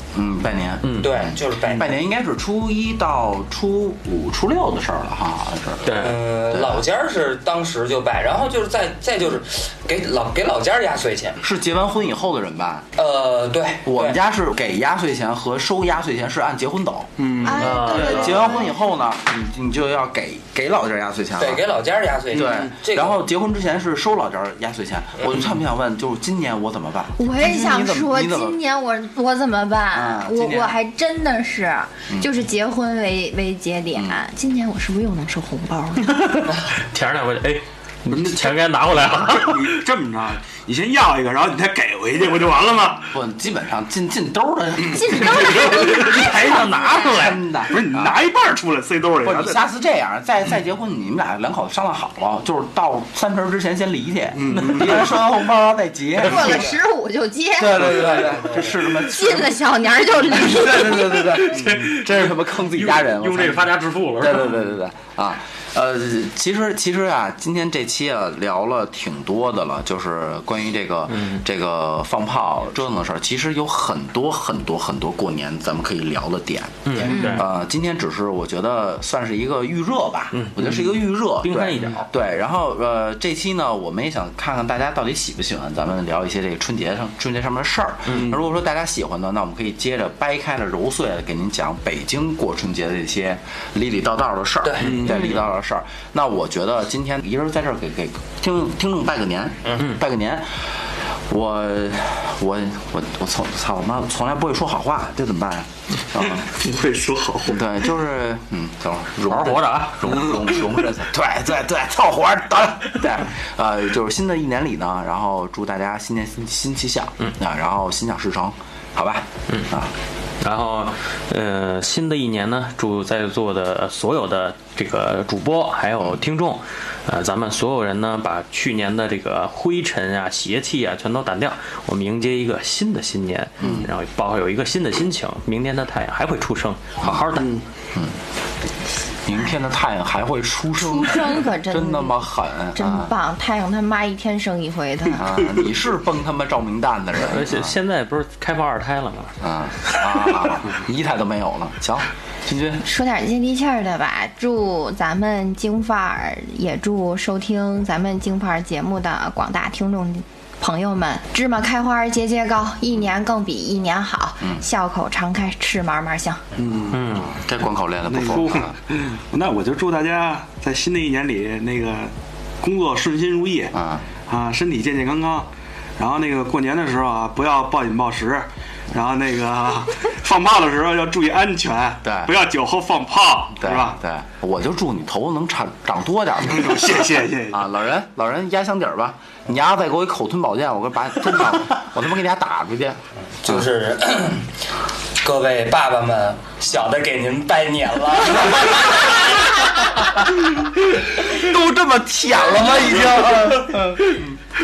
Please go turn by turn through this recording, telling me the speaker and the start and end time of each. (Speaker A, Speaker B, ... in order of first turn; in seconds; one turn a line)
Speaker A: 0.1-6.0
Speaker B: 0.8-1.1
Speaker C: 1.0-2.0
Speaker B: 5.8-6.2
Speaker C: 6.0-11.4
Speaker A: 6.5-6.8
Speaker A: 11.4-12.8
Speaker C: 13.0-14.2
Speaker A: 13.8-21.6
Speaker D: 17.2-17.8
Speaker E: 17.4-18.8
Speaker B: 17.6-18.6
Speaker C: 21.4-23.2
Speaker A: 22.3-28.6
Speaker D: 22.3-22.7
Speaker C: 25.2-25.5
Speaker E: 27.2-36.3
Speaker A: 29.9-30.8
Speaker A: 33.9-34.2
Speaker B: 36.1-39.8
Speaker D: 38.1-43.1
Speaker A: 43.1-48.2
Speaker E: 44.9-47.1
Speaker B: 45.2-47.6
Speaker D: 47.7-49.6
Speaker A: 49.2-56.8
Speaker D: 54.4-55.2
Speaker B: 54.5-55.0
Speaker E: 56.2-58.0
Speaker A: 57.6-59.6
Speaker C: 57.8-58.7
Speaker E: 58.7-61.2
Speaker A: 60.3-106.5
Speaker B: 61.2-64.6
Speaker B: 71.1-71.4
Speaker B: 76.9-77.5
Speaker E: 77.0-77.5
Speaker B: 80.3-82.1
Speaker C: 94.6-95.4
Speaker D: 94.8-95.3
Speaker D: 106.2-107.7
Speaker A: 107.5-119.9
Speaker B: 109.2-110.3
Speaker D: 110.1-110.4
Speaker B: 120.4-137.6
Speaker A: 133.6-133.9
Speaker D: 133.6-133.9
Speaker A: 137.0-137.3
Speaker D: 137.3-137.6
Speaker A: 139.2-143.1
Speaker E: 140.8-145.3
Speaker A: 145.2-147.8
Speaker B: 147.2-150.6
Speaker A: 149.4-152.8
Speaker E: 152.8-166.4
Speaker D: 166.6-167.2
Speaker B: 166.9-167.3
Speaker A: 167.2-168.8
Speaker D: 168.1-173.8
Speaker A: 173.7-174.1
Speaker D: 174.3-184.0
Speaker A: 182.0-182.3
Speaker A: 183.6-193.7
Speaker D: 186.5-187.7
Speaker C: 193.4-194.5
Speaker C: 195.2-199.6
Speaker A: 200.9-204.4